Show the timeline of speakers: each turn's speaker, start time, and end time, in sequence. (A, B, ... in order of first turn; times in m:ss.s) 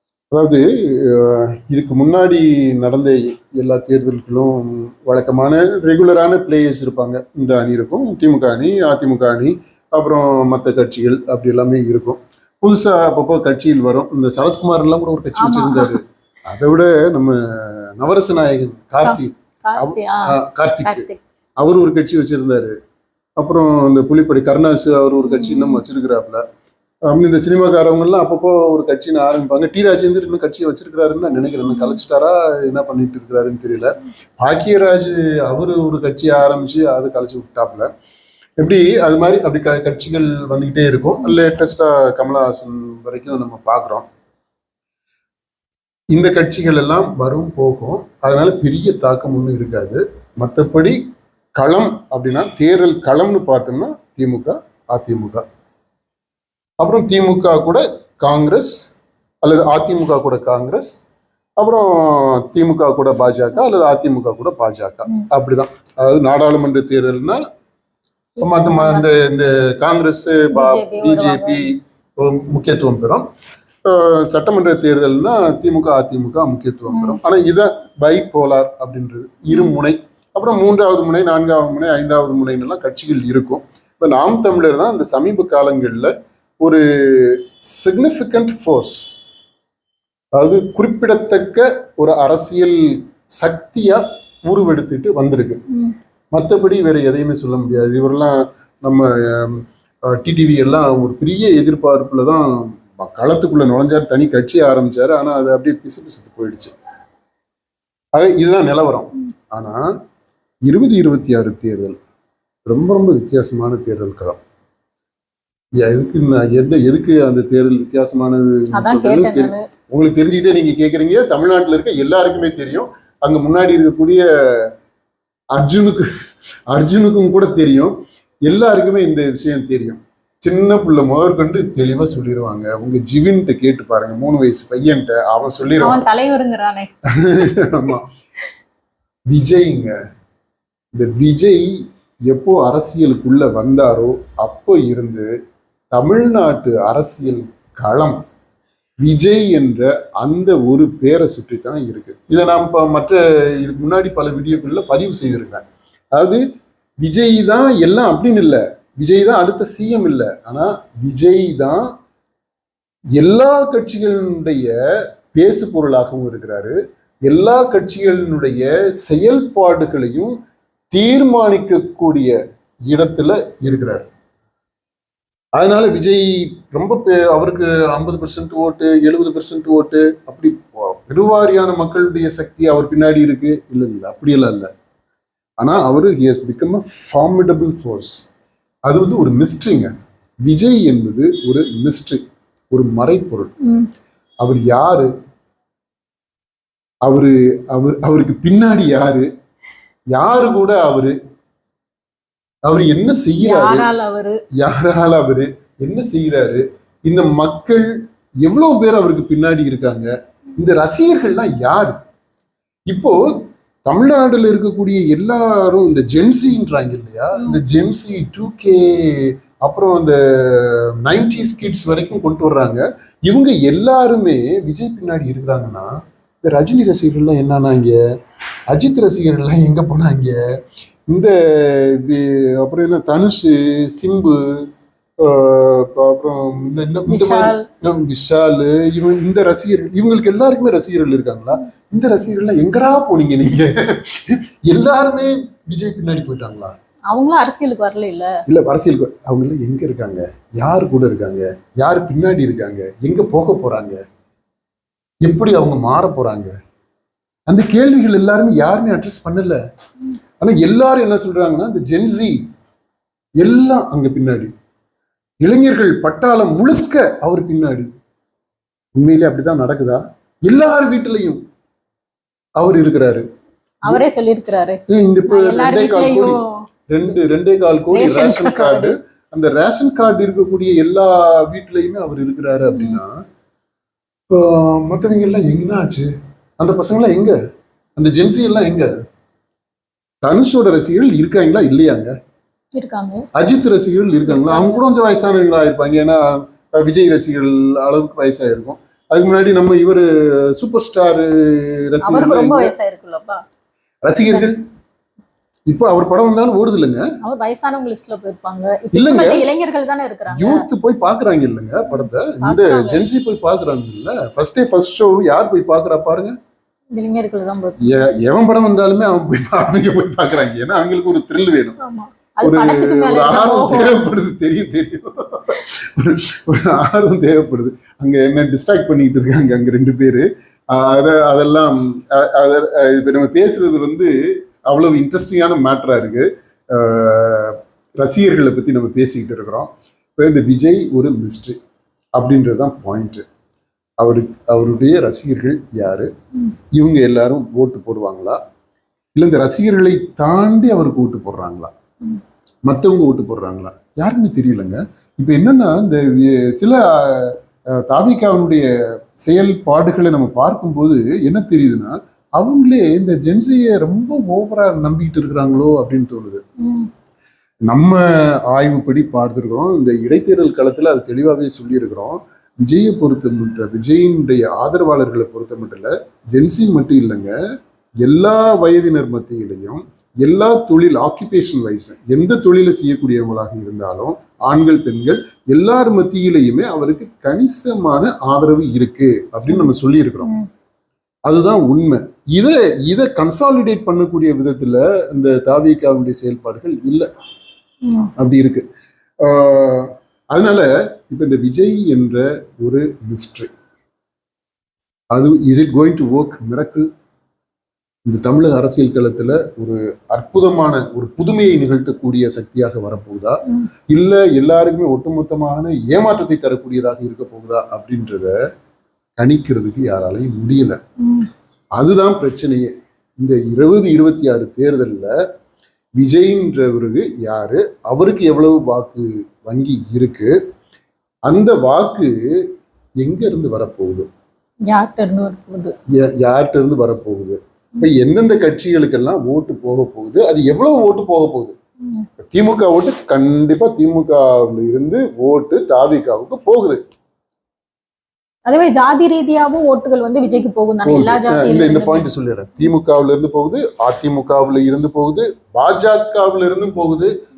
0:00.3-0:21.1 A
0:15.4-0:16.0 B
0:19.0-0:21.2 B
0:21.6-0:22.7 A
0:23.4-0:26.4 A
0:25.3-0:25.8 B
0:27.1-0:37.9 A
0:31.7-0:32.0 B
0:38.6-0:44.1 A
0:46.1-0:51.0 A
0:51.6-0:55.4 A
0:56.8-0:58.9 A
0:59.4-1:01.0 A
1:01.6-1:07.4 A
1:08.4-1:09.0 B
1:08.4-1:13.3 A
1:10.5-1:11.6 B
1:13.8-1:29.1 A
1:16.9-1:17.2 B
1:30.4-1:32.8 A
1:33.4-1:35.6 A
1:36.3-1:46.7 A
1:48.1-1:49.8 A
1:50.7-1:52.0 A
1:52.7-1:54.4 A
1:55.8-2:04.7 A
1:58.8-1:59.6 B
2:05.5-2:06.1 A
2:06.7-2:08.0 A
2:08.5-2:16.0 A
2:15.8-2:16.9 B
2:17.2-2:18.1 A
2:19.3-2:19.9 A
2:20.9-2:21.7 A
2:22.3-2:25.3 A
2:25.9-2:28.2 A
2:29.0-2:35.6 A
2:36.1-2:36.4 A
2:37.0-2:41.9 A
2:43.2-2:44.7 A
2:45.3-2:46.8 A
2:47.3-2:50.3 A
2:50.9-2:52.3 A
2:52.9-2:54.1 A
2:55.6-3:04.7 A
3:05.6-3:08.3 A
3:08.9-3:09.9 A
3:10.5-3:12.2 A
3:12.7-3:13.5 A
3:13.6-3:13.9 B
3:14.4-3:15.1 A
3:17.0-3:19.3 A
3:20.1-3:21.1 A
3:22.6-3:23.9 A
3:23.4-3:24.4 B
3:24.6-3:27.9 A
3:28.4-3:32.0 A
3:32.9-3:45.9 A
3:46.4-3:48.0 A
3:48.7-3:50.4 A
3:51.1-3:54.7 A
3:55.2-4:06.7 A
3:57.1-3:57.6 B
4:07.1-4:08.3 B
4:08.5-4:14.0 A
4:15.2-4:16.5 A
4:17.5-4:19.6 A
4:20.4-4:22.4 A
4:23.4-4:24.5 A
4:25.4-4:27.9 A
4:29.0-4:31.4 A
4:32.6-4:33.2 A
4:33.9-4:36.5 B
4:34.9-4:43.1 A
4:37.9-4:38.9 B
4:44.3-4:47.4 A
4:48.0-4:48.9 A
4:50.2-4:52.1 A
4:52.8-4:53.2 B
4:53.4-5:02.7 A
4:54.2-4:54.8 B
5:02.0-5:03.4 B
5:04.0-5:04.6 A
5:05.7-5:07.0 A
5:07.2-5:10.6 B
5:08.9-5:09.4 A
5:10.3-5:16.3 A
5:11.9-5:13.0 B
5:16.9-5:17.8 B
5:17.8-5:21.8 A
5:21.8-5:24.0 B
5:22.4-5:34.1 A
5:34.7-5:41.6 A
5:42.2-5:43.2 A
5:44.0-5:46.1 A
5:46.7-5:48.4 A
5:49.2-5:51.7 A
5:52.7-5:58.7 A
5:59.2-6:06.4 A
6:06.6-6:06.9 B
6:07.7-6:17.3 A
6:18.0-6:30.3 A
6:31.3-6:37.1 A
6:38.2-6:38.6 A
6:39.2-6:43.5 A
6:45.1-6:46.8 A
6:48.1-6:58.3 A
6:59.2-7:00.8 A
7:01.0-7:01.3 B
7:01.8-7:05.1 A
7:06.0-7:10.3 A
7:11.3-7:12.1 A
7:13.0-7:14.1 A
7:14.7-7:15.8 B
7:15.9-7:21.5 A
7:22.2-7:26.8 A
7:28.5-7:32.1 B
7:30.8-7:37.1 A